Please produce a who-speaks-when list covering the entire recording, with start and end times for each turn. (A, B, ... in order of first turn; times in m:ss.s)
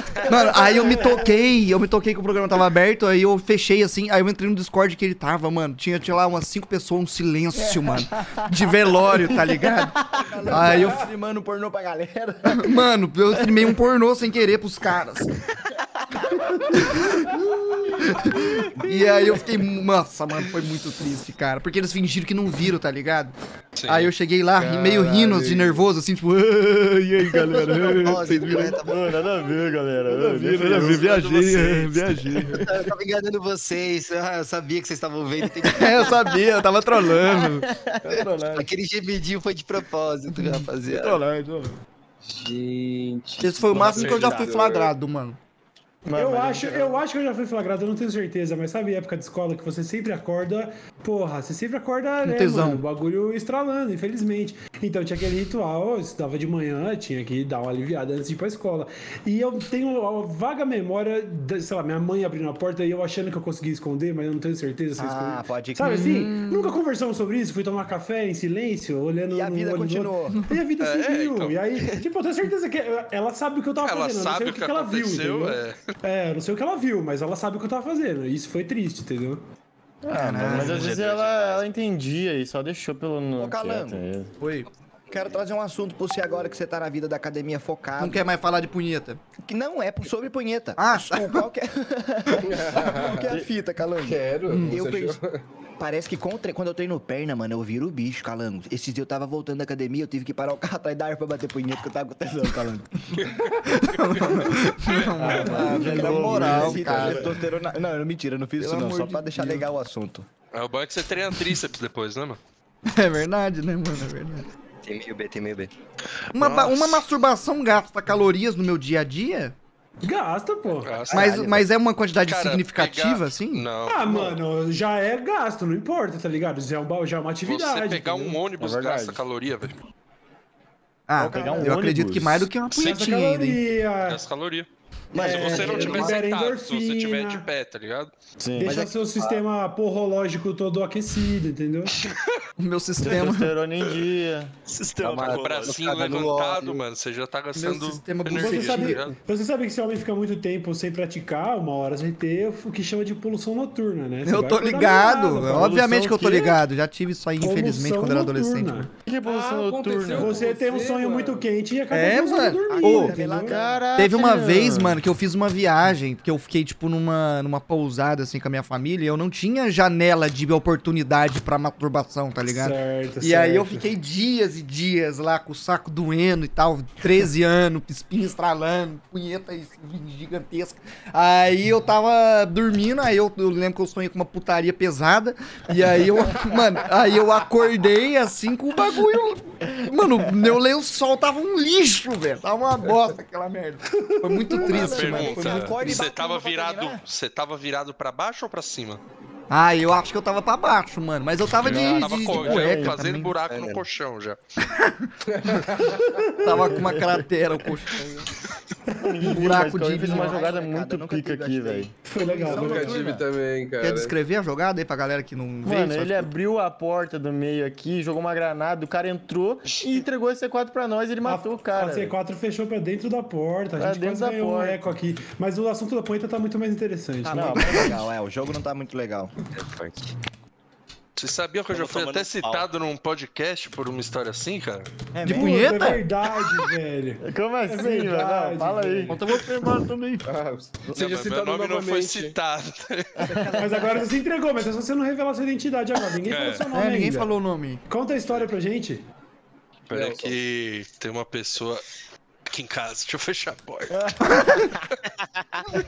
0:00.2-0:11.1 A
0:00.6-0:01.3 B
0:10.1-0:12.8 C
0:12.5-0:15.3 A
0:16.2-0:16.6 C
0:16.7-0:17.3 A
0:18.0-0:23.4 A
0:23.8-0:24.1 D
0:23.9-0:28.8 A
0:24.6-0:25.8 E
0:27.6-0:29.3 F
0:28.7-0:31.3 G
0:30.1-0:32.7 A
0:30.8-0:32.0 D
0:32.5-0:36.2 F
0:35.7-0:38.7 A
0:37.2-0:38.0 G
0:38.5-0:41.2 F
0:40.3-0:41.8 A
0:42.2-0:44.9 E
0:43.4-0:45.4 A
0:43.8-0:44.3 G
0:46.0-0:47.0 G
0:46.1-1:19.4 B
0:52.2-0:52.8 A
1:05.0-1:06.2 C
1:05.8-1:06.8 A
1:09.3-1:10.4 C
1:10.8-1:11.6 D
1:13.8-1:15.9 D
1:20.0-1:24.3 G
1:20.1-1:20.9 A
1:20.5-1:21.4 D
1:20.7-1:21.5 H
1:23.3-1:24.0 C
1:24.4-1:24.7 A
1:25.1-1:28.2 C
1:28.0-1:29.2 A
1:29.4-1:35.2 C
1:30.8-1:31.4 A
1:32.5-1:33.3 E
1:34.0-1:35.4 E
1:34.5-1:34.8 A
1:35.8-1:43.2 C
1:43.2-1:45.2 D
1:43.6-1:47.4 A
1:45.2-1:47.4 G
1:45.3-1:50.3 C
1:48.6-1:49.6 A
1:50.5-1:52.4 D
1:52.9-1:54.5 A
1:54.8-1:55.7 F
1:56.3-1:59.6 A
1:56.4-1:57.0 D
2:00.0-2:01.1 B
2:00.8-2:01.5 D
2:01.1-2:03.7 A
2:02.3-2:04.4 D
2:03.8-2:08.4 B
2:07.4-2:09.8 D
2:08.6-2:09.2 G
2:11.1-2:13.6 A
2:11.2-2:12.5 G
2:11.3-2:11.7 C
2:12.8-2:14.2 B
2:14.0-2:18.1 D
2:15.1-2:16.2 F
2:15.1-2:17.5 B
2:18.4-2:18.9 G
2:18.6-2:22.0 B
2:18.6-2:19.4 F
2:22.6-2:23.5 A
2:23.0-2:24.5 G
2:24.7-2:25.8 H
2:25.0-2:26.8 F
2:25.3-2:29.2 D
2:27.6-2:29.0 A
2:28.3-2:35.8 B
2:34.2-2:38.9 A
2:35.5-2:36.6 G
2:37.4-2:38.9 B
2:39.0-2:40.4 G
2:39.2-2:41.5 E
2:40.1-2:43.6 B
2:41.9-2:43.2 A
2:42.7-2:43.8 C
2:43.5-2:45.0 G
2:44.0-3:16.1 A
2:52.5-2:53.9 B
3:14.0-3:14.6 B
3:14.6-3:17.0 C
3:14.7-3:19.0 D
3:19.5-3:23.4 A
3:21.6-3:24.4 D
3:21.6-3:23.0 G
3:23.4-3:23.8 F
3:24.6-3:25.1 A
3:25.3-3:26.0 E
3:26.4-3:28.2 A
3:26.7-3:27.2 G
3:28.9-3:29.6 B
3:29.0-3:31.9 G
3:29.3-3:30.3 A
3:30.1-3:33.2 C
3:32.0-3:33.1 B
3:32.4-3:34.2 E
3:33.8-3:36.3 A
3:35.6-3:42.2 G
3:41.2-3:47.8 B
3:43.8-3:44.8 G
3:47.2-3:49.3 C
3:47.3-3:48.0 G
3:49.5-3:50.1 F
3:51.2-3:54.9 D
3:51.7-3:52.7 H
3:55.1-3:55.8 C
3:55.2-3:56.0 A
3:55.3-3:59.2 B
3:57.2-3:59.2 G
3:59.1-4:00.2 A
4:00.2-4:02.4 E
4:00.9-4:03.3 D
4:03.3-4:04.0 C
4:03.5-4:07.3 B
4:06.2-4:06.7 D
4:06.7-4:07.8 A
4:07.9-4:09.0 B
4:09.9-4:11.8 D
4:09.9-4:10.4 E
4:12.5-4:14.6 D
4:14.3-4:14.6 A
4:15.4-4:15.6 H